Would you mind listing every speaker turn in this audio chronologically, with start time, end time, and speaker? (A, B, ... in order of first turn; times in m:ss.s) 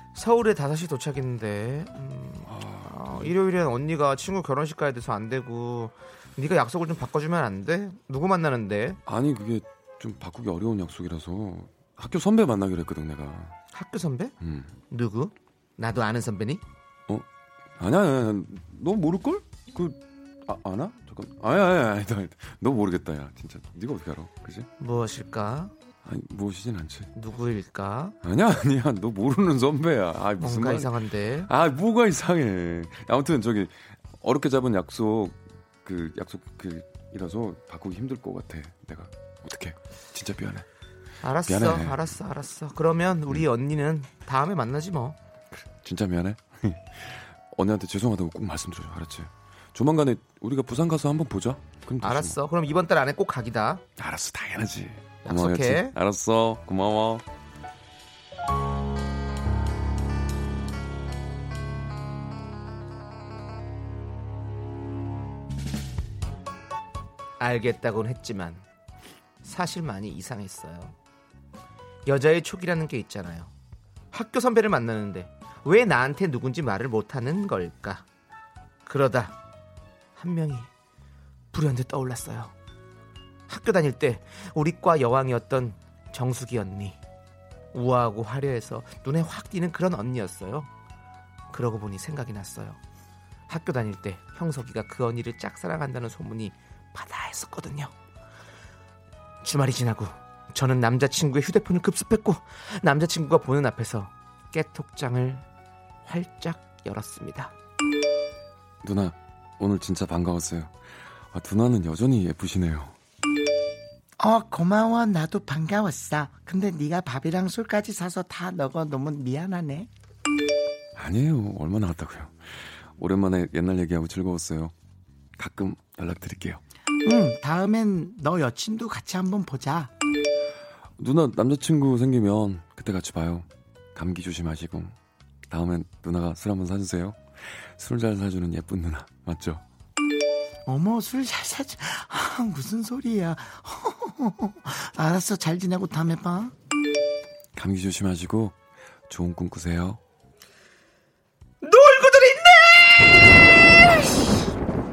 0:00.2-0:09.0 A
0:02.5-0:03.3 B
0:09.1-0:13.6 B
0:13.7-0:14.3 A
0:14.4-0:14.7 B
0:14.9-0:16.6 A
0:17.8-0:24.7 B
0:24.8-0:25.7 A
0:26.0-0:27.1 B
0:27.2-0:28.2 A
0:28.2-0:30.9 B
0:30.4-0:31.5 A
0:31.5-0:40.6 B
0:41.2-0:45.2 A
0:41.5-0:42.0 B
0:45.6-0:52.4 B
0:52.0-0:53.8 A
0:54.0-0:57.2 B
0:55.2-0:56.0 A
1:07.4-1:08.6 A
1:09.4-1:10.9 A
1:12.1-1:13.5 A
1:14.1-1:18.0 A
1:18.9-1:19.4 A
1:20.2-1:20.7 A
1:21.5-1:22.5 A
1:23.5-1:27.0 A
1:27.7-1:30.7 A
1:31.5-1:32.8 A
1:33.5-1:37.9 A
1:39.4-1:45.4 A
1:46.0-1:47.5 A
1:48.8-1:50.7 B
1:51.3-1:52.9 B
1:54.2-1:59.9 C
2:01.0-2:04.7 B
2:05.4-2:06.6 B
2:07.0-2:09.9 C
2:11.0-2:14.9 B
2:15.5-2:19.6 B
2:20.7-2:26.5 C
2:27.6-2:28.6 B
2:29.1-2:30.0 B
2:31.6-2:33.3 A